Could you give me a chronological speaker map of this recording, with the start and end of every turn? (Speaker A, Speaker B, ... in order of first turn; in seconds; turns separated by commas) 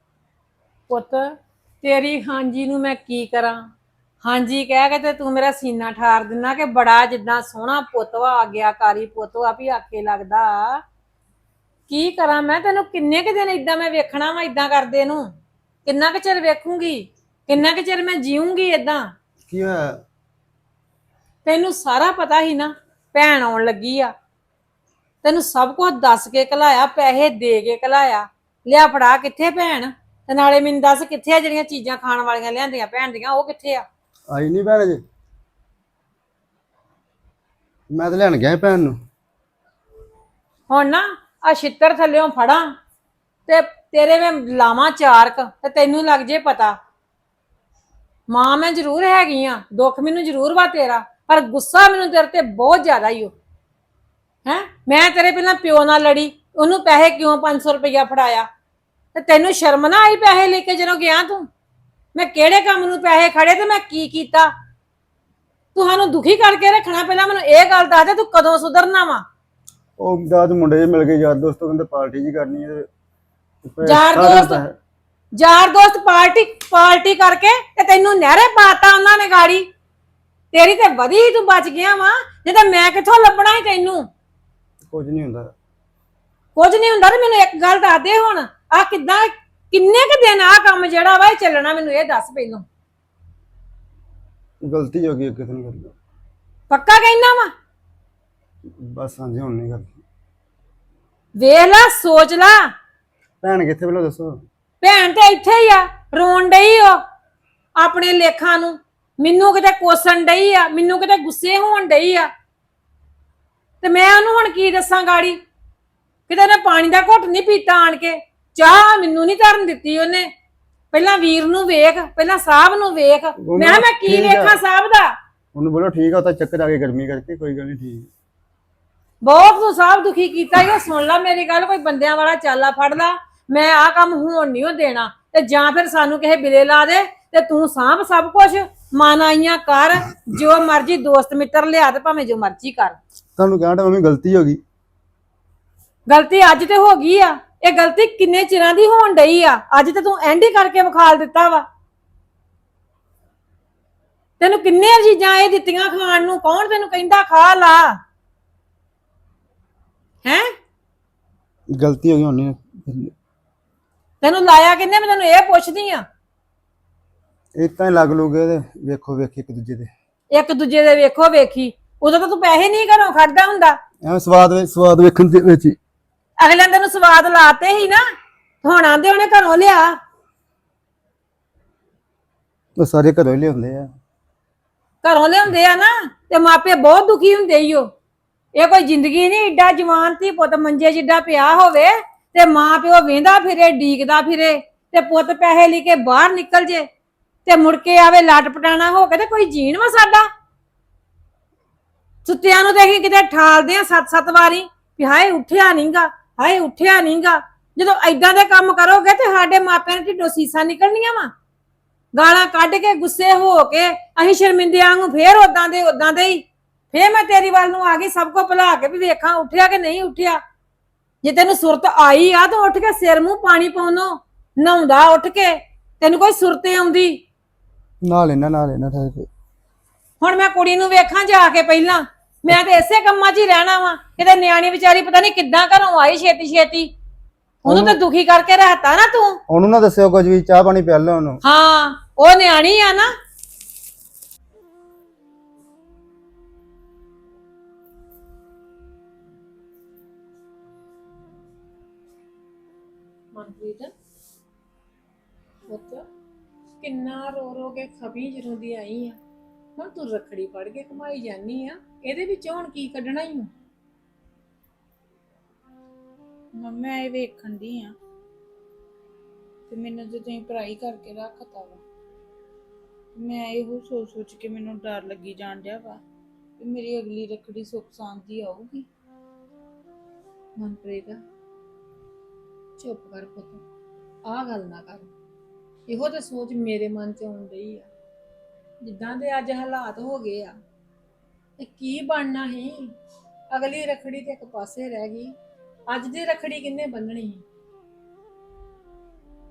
Speaker A: 0.9-3.7, Speaker A: 4.2-10.8, Speaker A: 11.9-15.3, Speaker A: 15.8-19.1, Speaker B: 19.5-20.0, Speaker A: 21.4-24.1, Speaker A: 25.2-33.9, Speaker B: 34.3-35.0, Speaker B: 37.9-39.0, Speaker A: 40.7-42.7, Speaker A: 43.5-46.8, Speaker A: 48.3-53.3, Speaker A: 54.5-58.5, Speaker A: 59.1-61.5, Speaker A: 62.1-64.5, Speaker A: 65.7-69.2, Speaker B: 70.0-72.9, Speaker B: 73.6-74.8, Speaker A: 73.8-74.6, Speaker A: 75.3-79.7, Speaker A: 80.5-84.1, Speaker B: 84.8-85.5, Speaker A: 86.5-92.6, Speaker B: 94.6-95.9, Speaker A: 96.7-97.5, Speaker B: 98.7-99.9, Speaker A: 101.4-102.7, Speaker B: 103.4-104.4, Speaker A: 104.8-107.0, Speaker A: 107.8-112.3, Speaker A: 113.8-115.4, Speaker A: 116.3-120.3, Speaker A: 120.9-125.1, Speaker B: 123.4-124.6, Speaker B: 125.5-128.1, Speaker A: 129.2-143.0, Speaker B: 143.4-144.6, Speaker A: 146.1-151.7, Speaker A: 154.4-158.0, Speaker B: 161.7-163.1, Speaker A: 164.2-166.1, Speaker B: 167.6-169.9, Speaker A: 170.3-173.8, Speaker B: 174.0-175.8, Speaker A: 176.4-178.0, Speaker A: 178.6-180.0, Speaker B: 182.8-183.9, Speaker A: 185.0-187.9, Speaker A: 188.5-196.9, Speaker A: 197.4-200.3, Speaker A: 202.2-211.3, Speaker A: 212.1-220.4, Speaker A: 221.2-227.2, Speaker B: 228.0-229.3, Speaker A: 230.2-236.9, Speaker B: 237.6-238.0, Speaker A: 237.6-239.4, Speaker B: 239.5-241.4, Speaker A: 241.4-243.1, Speaker A: 253.3-253.9, Speaker A: 255.7-256.1, Speaker A: 256.8-259.2, Speaker A: 259.8-263.5, Speaker C: 266.6-267.9, Speaker C: 269.7-271.8, Speaker C: 273.1-276.0, Speaker C: 276.6-278.9, Speaker A: 280.6-281.2, Speaker A: 282.8-283.6, Speaker A: 284.2-285.1, Speaker A: 285.9-287.9, Speaker A: 288.8-290.6, Speaker A: 291.6-292.9, Speaker A: 293.5-295.3, Speaker A: 295.9-297.4